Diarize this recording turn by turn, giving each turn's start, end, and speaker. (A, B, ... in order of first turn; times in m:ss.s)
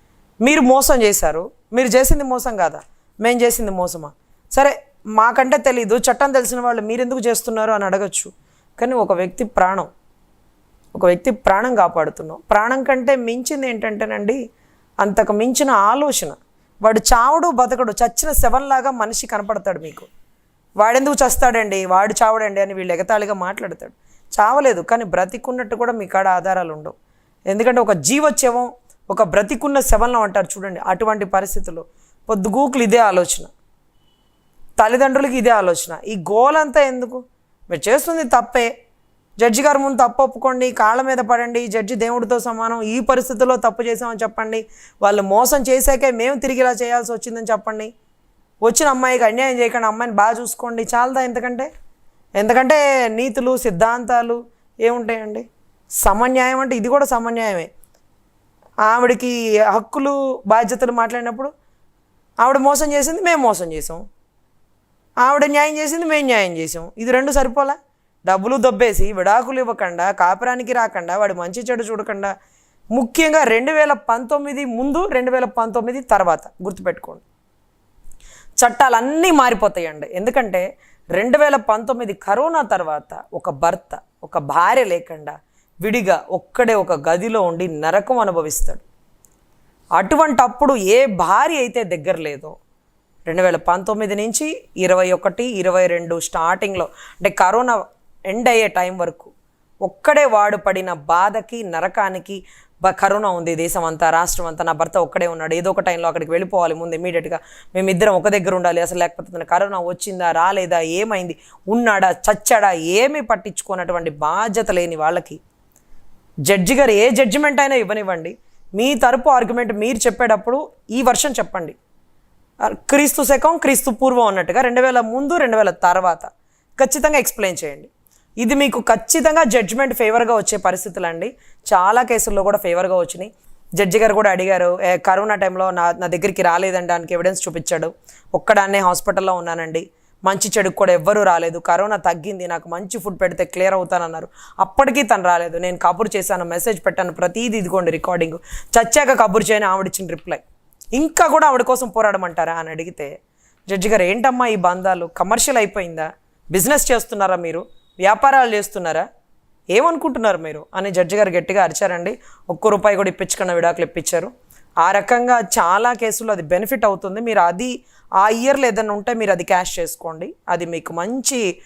0:00.4-0:09.9 A
0:10.9-0:14.4 A
0:15.0-0:20.1 A
0:20.8-0:26.9 A
0:27.5-0:33.5 A
0:34.8-0:38.7 A
0:39.4-0:47.9 A
0:48.6-0:51.7 A
0:52.4-0:55.4 A
0:56.0-0:57.7 A
0:58.8-1:01.5 A
1:02.4-1:04.0 A
1:05.2-1:12.3 A
1:12.9-1:17.2 A
1:18.6-1:20.6 A
1:21.2-1:28.8 A
1:30.0-1:32.5 A
1:33.3-1:39.3 A
1:39.8-1:55.4 A
1:56.5-2:01.8 A
2:02.7-2:06.3 A
2:06.8-2:07.9 A
2:08.4-2:30.4 A
2:30.9-2:33.1 A
2:33.7-2:39.0 A
2:39.7-2:44.3 A
2:44.8-2:51.4 A